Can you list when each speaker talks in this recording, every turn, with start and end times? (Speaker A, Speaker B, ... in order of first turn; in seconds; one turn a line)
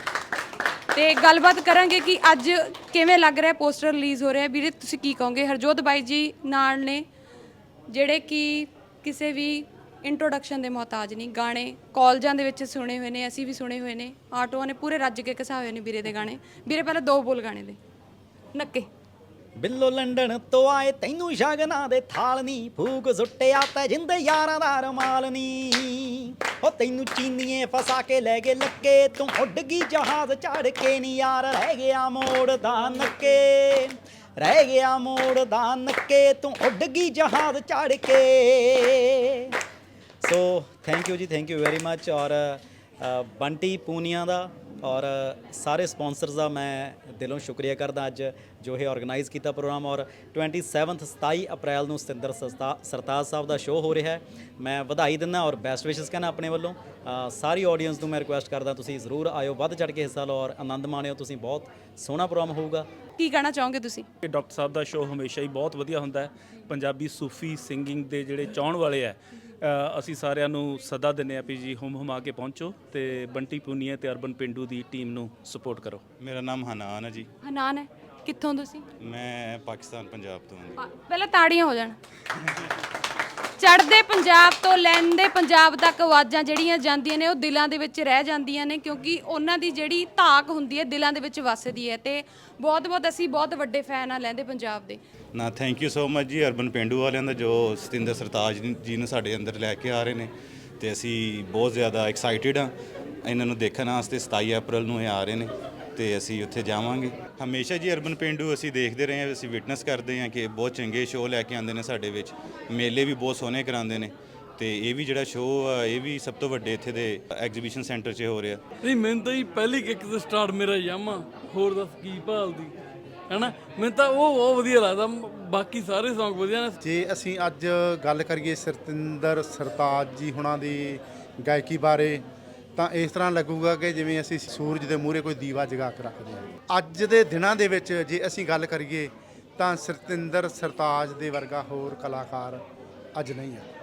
Speaker A: 0.9-7.0
Speaker A: 7.9-17.8
Speaker A: 18.5-18.9
Speaker B: 19.6-39.5
Speaker B: 40.2-62.9
Speaker A: 63.2-64.0
Speaker C: 64.2-76.0
Speaker D: 76.2-77.3
Speaker A: 77.4-78.8
Speaker D: 79.0-80.8
Speaker A: 80.8-82.0
Speaker A: 83.6-95.0
Speaker D: 95.3-102.7
Speaker D: 103.2-118.6
Speaker E: 118.8-122.7
Speaker E: 123.3-126.8
Speaker F: 126.8-132.2
Speaker F: 132.8-142.6
Speaker F: 143.1-143.6